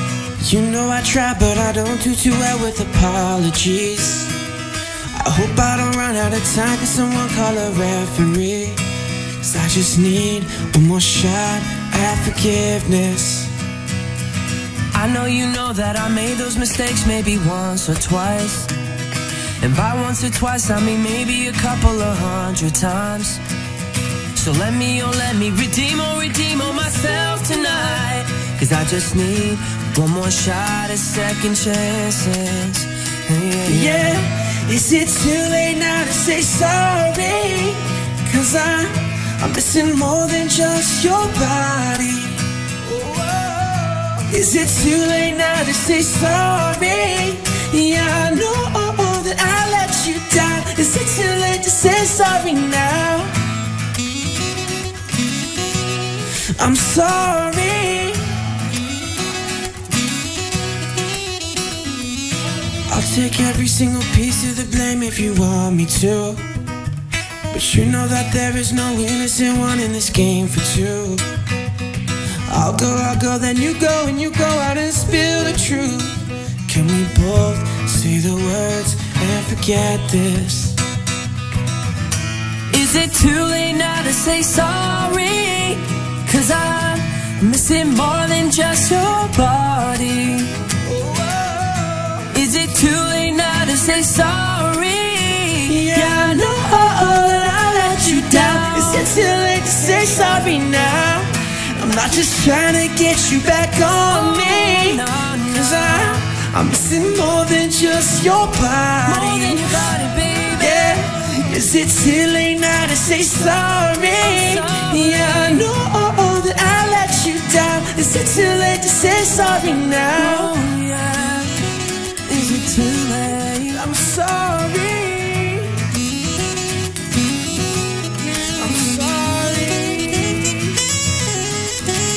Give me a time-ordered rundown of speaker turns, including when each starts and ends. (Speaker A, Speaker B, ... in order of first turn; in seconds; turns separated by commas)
Speaker A: 0.4-4.3, Speaker A: 5.1-8.8, Speaker A: 9.4-13.5, Speaker B: 14.9-18.7, Speaker B: 19.6-23.4, Speaker B: 24.4-34.1, Speaker A: 33.6-53.4, Speaker A: 56.5-58.3, Speaker A: 62.9-66.4, Speaker A: 67.5-71.3, Speaker A: 72.4-80.8, Speaker B: 82.7-90.6, Speaker A: 90.8-92.2, Speaker B: 92.3-96.5, Speaker A: 95.7-109.9, Speaker B: 97.9-99.2, Speaker B: 104.1-106.2, Speaker B: 109.0-111.1, Speaker A: 110.5-120.5, Speaker B: 114.2-115.6, Speaker B: 120.2-123.9, Speaker A: 123.7-125.8, Speaker A: 128.5-130.8